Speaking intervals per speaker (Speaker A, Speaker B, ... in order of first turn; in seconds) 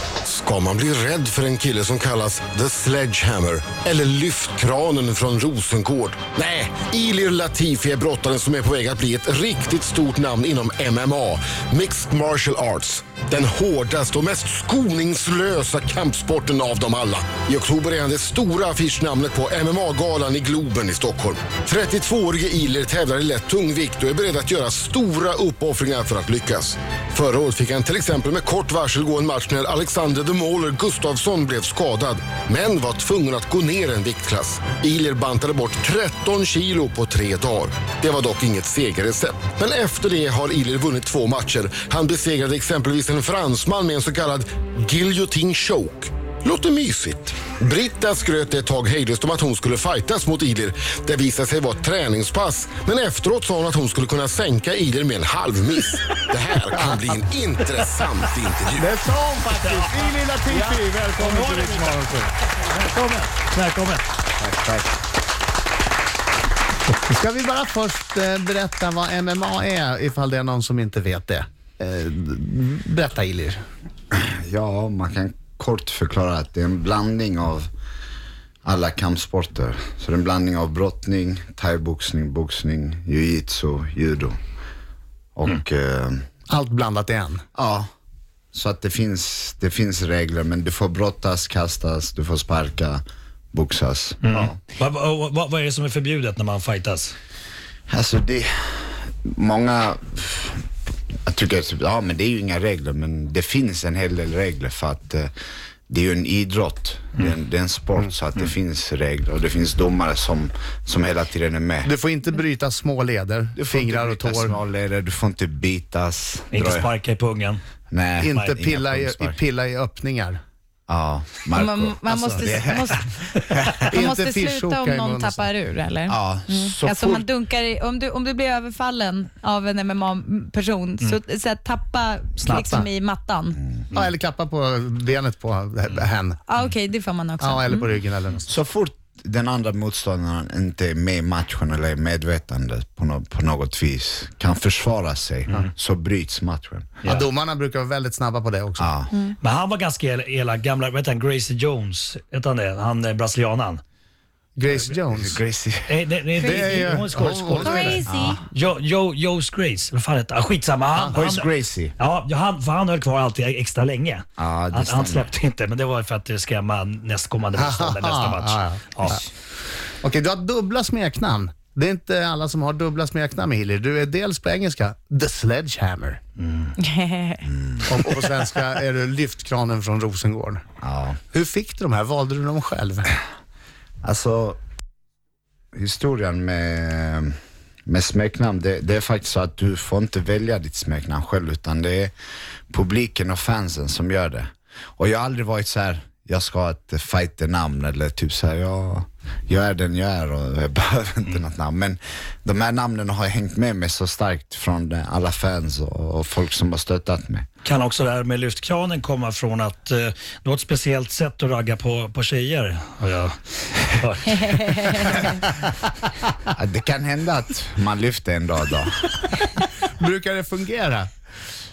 Speaker A: 0.2-58.9
Speaker B: 58.7-62.3, 67.0-73.6, 86.5-87.4, 111.8-114.6, 118.2-120.4, 122.1-122.5, 123.8-125.5, 132.5-132.9, 133.9-136.4, 137.4-138.5, 147.0-148.9, 154.6-155.4, 156.4-158.0, 160.9-161.2, 167.5-169.2, 170.0-176.2, 177.8-180.6, 181.3-183.1, 219.9-221.1
Speaker C: 59.6-64.0, 94.2-97.1, 116.5-117.6, 149.4-153.8, 155.8-169.3, 176.4-176.7, 207.6-215.2
Speaker D: 64.4-65.0, 74.1-77.7, 78.6-84.4, 85.3-86.2, 87.5-87.9, 88.5-93.0, 93.5-94.5, 97.9-100.6, 101.3-105.3, 105.9-111.9, 113.5-116.9, 117.9-119.4, 120.9-123.8, 126.1-127.3, 138.5-146.9, 148.8-149.1, 155.1-155.9, 158.1-158.4, 161.1-161.9, 164.4-165.3, 177.4-177.8, 180.8-181.2, 184.0-184.6, 185.7-187.3, 187.9-192.1, 192.7-207.4, 216.5-219.3
Speaker E: 121.5-123.1, 123.8-133.6, 136.5-137.8, 156.4-156.8, 157.6-158.4, 176.8-177.5, 214.2-215.4